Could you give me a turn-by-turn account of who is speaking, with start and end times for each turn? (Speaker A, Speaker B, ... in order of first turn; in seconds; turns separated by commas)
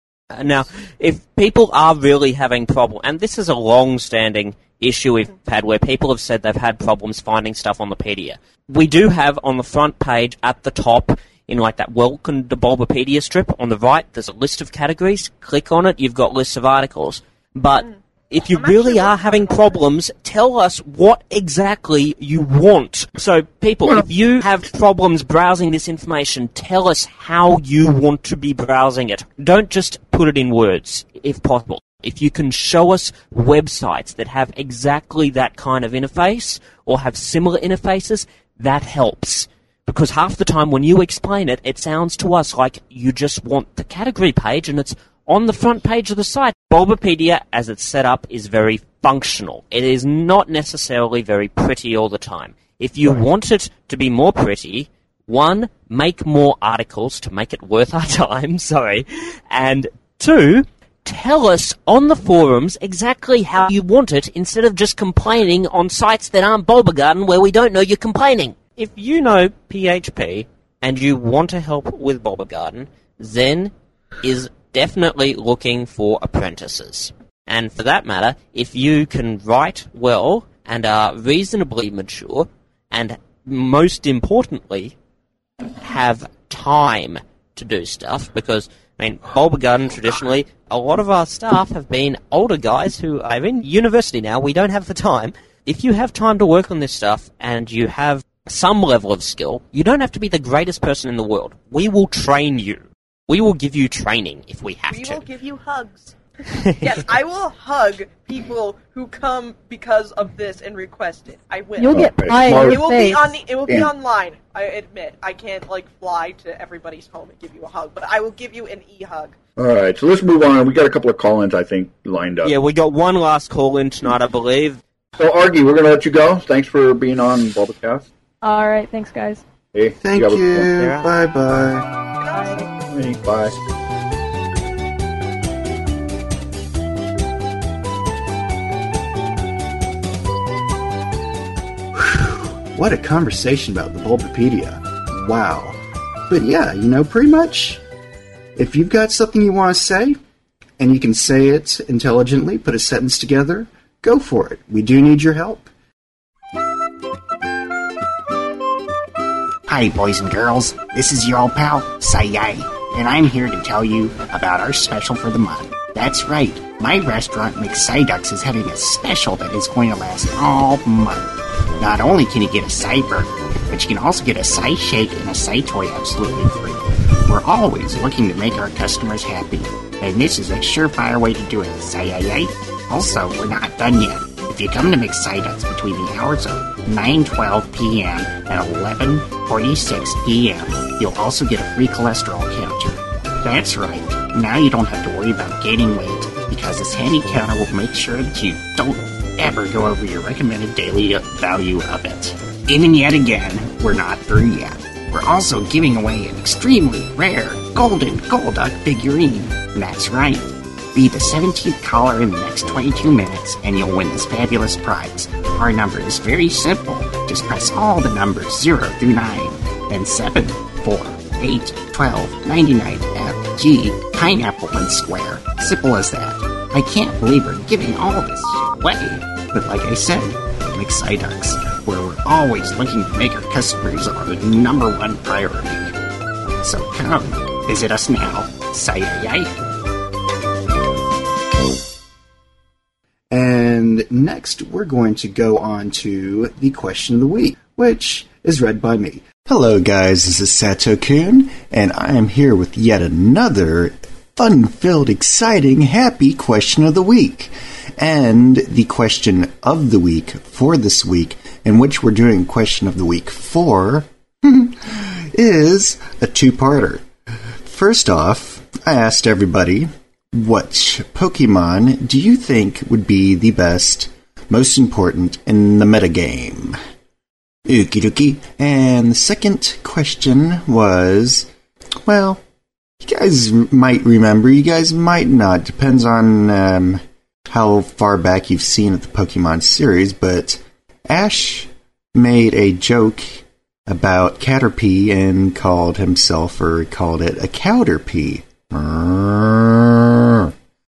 Speaker A: 0.3-84.9, Speaker B: 18.5-19.8, Speaker A: 85.8-105.2, Speaker B: 104.9-106.1, Speaker A: 106.6-107.0, Speaker B: 106.8-119.3, Speaker C: 111.8-113.4, Speaker D: 111.9-112.8, Speaker D: 119.6-122.5, Speaker A: 122.4-124.8, Speaker D: 125.1-128.1, Speaker C: 128.4-129.4, Speaker D: 129.7-130.7, Speaker E: 130.0-131.9, Speaker A: 130.8-131.1, Speaker B: 132.2-132.7, Speaker C: 132.3-132.6, Speaker D: 132.9-133.5, Speaker E: 141.9-147.8, Speaker E: 148.6-150.2, Speaker E: 150.8-155.7, Speaker F: 159.7-235.9, Speaker F: 236.6-239.5, Speaker E: 243.3-267.0, Speaker E: 267.6-276.8, Speaker E: 277.6-281.5, Speaker E: 282.0-282.4, Speaker E: 283.0-300.5